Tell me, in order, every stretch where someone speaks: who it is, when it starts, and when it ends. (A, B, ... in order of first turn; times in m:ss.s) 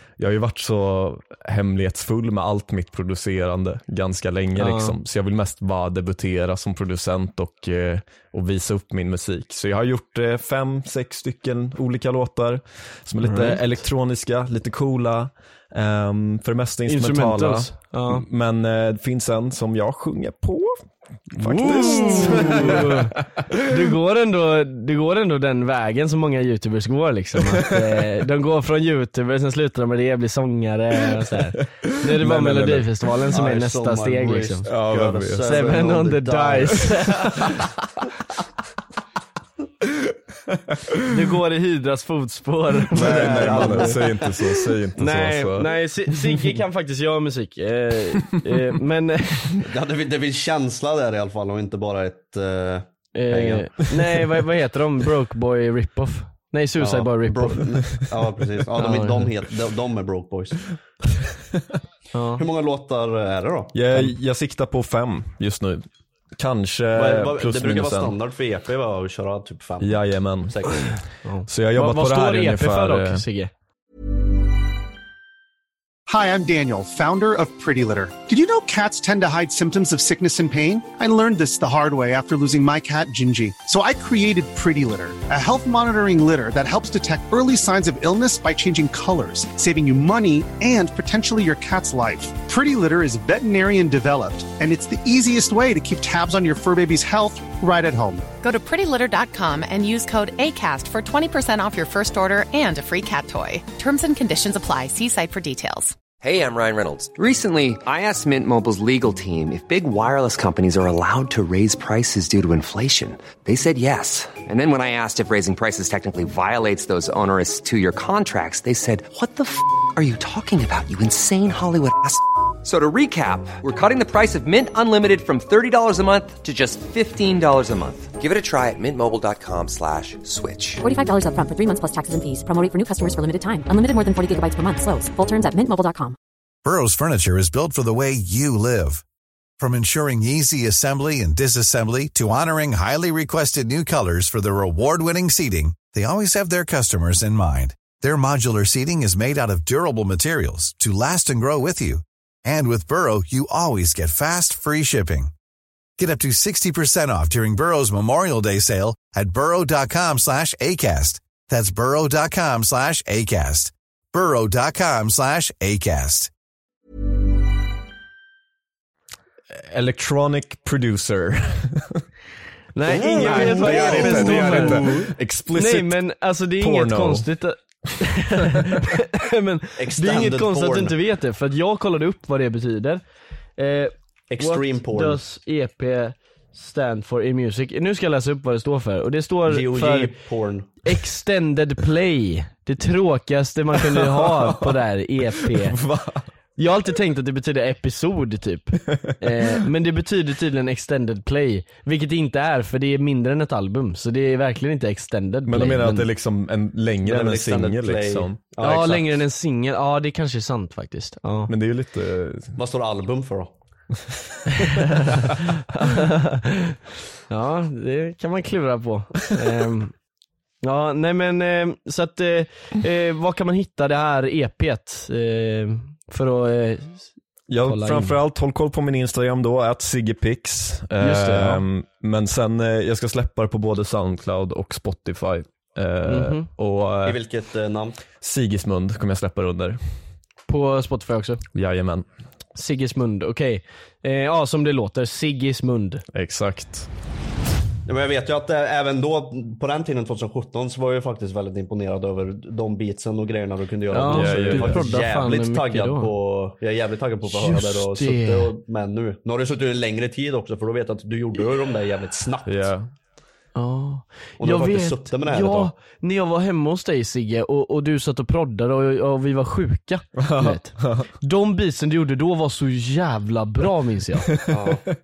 0:00.2-0:23.1 A
0:04.6-0:04.9 B
0:13.2-0:13.6 B
0:16.9-0:18.2 B
0:21.4-0:34.7 B
0:32.1-0:32.9 A
0:33.3-0:37.4 C
0:34.7-0:35.5 A
0:35.4-0:37.6 B
0:41.1-0:44.0 B
0:42.9-0:45.7 A
0:42.9-0:44.3 C
0:45.0-0:49.6 B
0:49.6-0:53.9 C
0:53.1-0:57.6 B
0:56.8-1:00.8 C
0:58.8-0:59.3 B
1:02.1-1:02.4 B
1:02.4-1:04.1 C
1:03.7-1:05.8 A
1:06.4-1:08.1 A
1:06.9-1:10.9 C
1:09.8-1:10.6 A
1:11.2-1:13.5 B
1:11.5-1:13.2 A
1:16.1-1:38.2 D
1:38.4-1:46.0 E
1:46.2-2:10.8 F
2:10.8-2:16.2 G
2:16.6-2:19.0 H
2:19.6-2:35.3 H
2:36.0-2:46.3 H
2:49.6-2:52.0 A
2:52.7-3:03.0 B
2:52.8-2:55.0 C
2:53.0-2:56.0 A
2:56.6-2:57.3 A
2:59.8-3:00.9 C
3:03.6-3:10.2 B
3:04.3-3:05.2 C
3:09.5-3:10.7 C
3:10.8-3:15.8 B
3:13.8-3:14.7 A
3:15.5-3:16.3 A
3:16.6-3:26.1 B
3:25.5-3:28.4 A
3:27.0-3:29.0 C
3:28.6-3:31.5 B
3:31.5-3:32.5 A
3:32.6-3:33.5 C
3:34.6-3:35.2 B
3:35.7-3:36.8 B
3:37.3-3:39.9 B
3:40.6-3:47.0 B
3:47.5-3:57.2 A
3:47.6-3:48.2 B
3:51.0-3:51.6 B
3:56.0-3:56.5 B
3:57.0-3:58.0 C
3:58.2-3:59.8 A
4:00.5-4:01.4 B
4:01.5-4:02.0 A
4:02.5-4:06.0 B
4:06.1-4:06.9 A
4:07.8-4:22.7 C
4:13.9-4:16.1 B
4:14.1-4:14.8 A
4:17.3-4:18.5 B
4:22.4-4:22.9 A
4:23.5-4:34.4 B
4:24.4-4:25.7 C
4:30.2-4:31.1 A
4:34.5-4:34.9 C